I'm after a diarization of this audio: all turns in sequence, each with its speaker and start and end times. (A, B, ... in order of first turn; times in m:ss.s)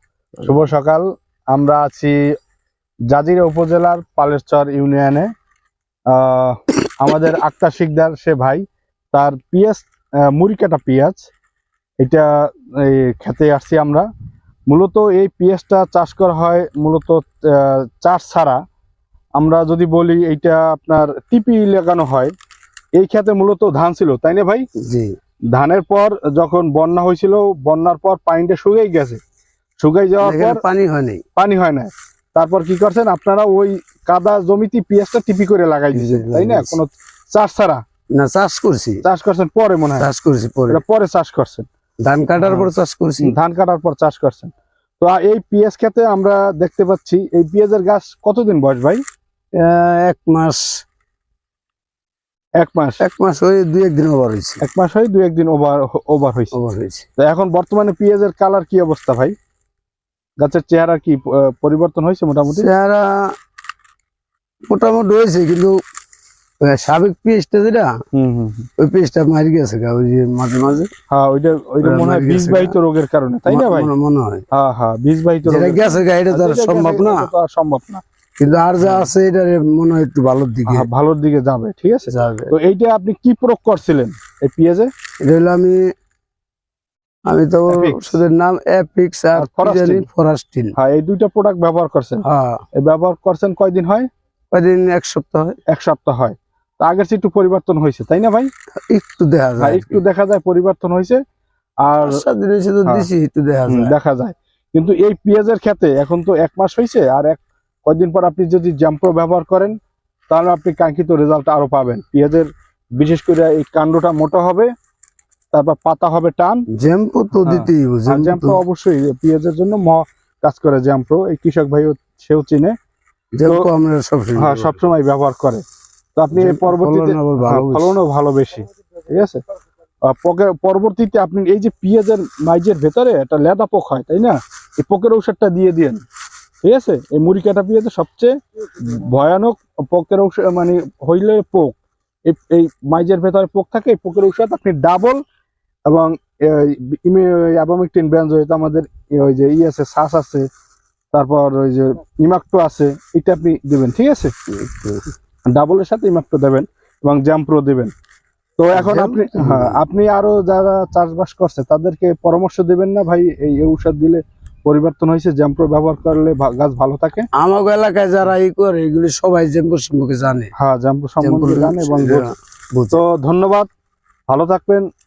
0:00.4-0:02.2 A
0:03.1-0:05.3 A
0:06.1-0:11.2 A
0:12.0-0:14.1 A
0:14.7-0:18.6 A
0:19.4-0:22.3 A
0:23.0-0:24.7 A
0:24.8-0:25.1 B
0:25.5-0:29.2 A
0:29.8-0:30.6 A
0:30.2-0:31.2 B
0:31.4-0:37.8 A
0:35.9-0:36.8 B
0:38.2-0:39.0 B
0:39.0-0:40.1 A
0:40.0-0:40.8 B
0:40.7-0:41.7 A
0:42.0-0:43.3 B
0:42.4-0:42.7 A
0:43.2-0:49.0 A
0:49.6-0:50.8 B
0:52.6-0:53.0 A
0:53.0-0:54.6 B
0:54.6-0:56.5 A
0:56.5-0:57.1 B
0:57.2-0:59.4 A
1:00.4-1:02.7 A
1:02.5-1:03.3 B
1:04.7-1:05.8 B
1:06.6-1:08.0 B
1:08.1-1:08.7 A
1:08.8-1:10.9 B
1:11.1-1:13.9 A
1:11.8-1:12.8 B
1:13.5-1:14.4 B
1:14.5-1:18.0 A
1:15.5-1:17.3 B
1:18.4-1:20.9 B
1:18.8-1:19.1 A
1:20.7-1:24.9 A
1:22.1-1:22.5 B
1:25.2-1:25.8 B
1:27.3-1:30.7 B
1:27.7-1:28.2 A
1:29.4-1:30.0 A
1:30.8-1:32.2 A
1:32.2-1:32.6 B
1:32.8-1:34.1 A
1:34.5-1:35.6 B
1:35.7-1:38.5 A
1:38.9-1:40.0 B
1:39.6-1:41.2 A
1:41.8-1:42.2 A
1:42.0-1:43.9 B
1:43.7-1:49.8 A
1:50.3-1:54.7 A
1:55.5-1:56.6 A
1:56.7-1:58.6 B
1:57.4-2:02.8 A
2:03.4-2:04.8 B
2:04.4-2:05.6 A
2:06.2-2:09.4 A
2:06.4-2:08.0 B
2:10.1-2:16.0 A
2:16.6-2:25.2 A
2:25.9-2:30.5 A
2:31.1-2:34.3 A
2:34.5-2:35.0 B
2:35.5-2:37.9 A
2:38.6-2:47.3 A
2:38.7-2:39.8 B
2:47.4-2:50.5 B
2:50.6-2:52.3 A
2:51.2-2:53.0 B
2:52.9-2:53.7 A
2:54.3-2:54.8 A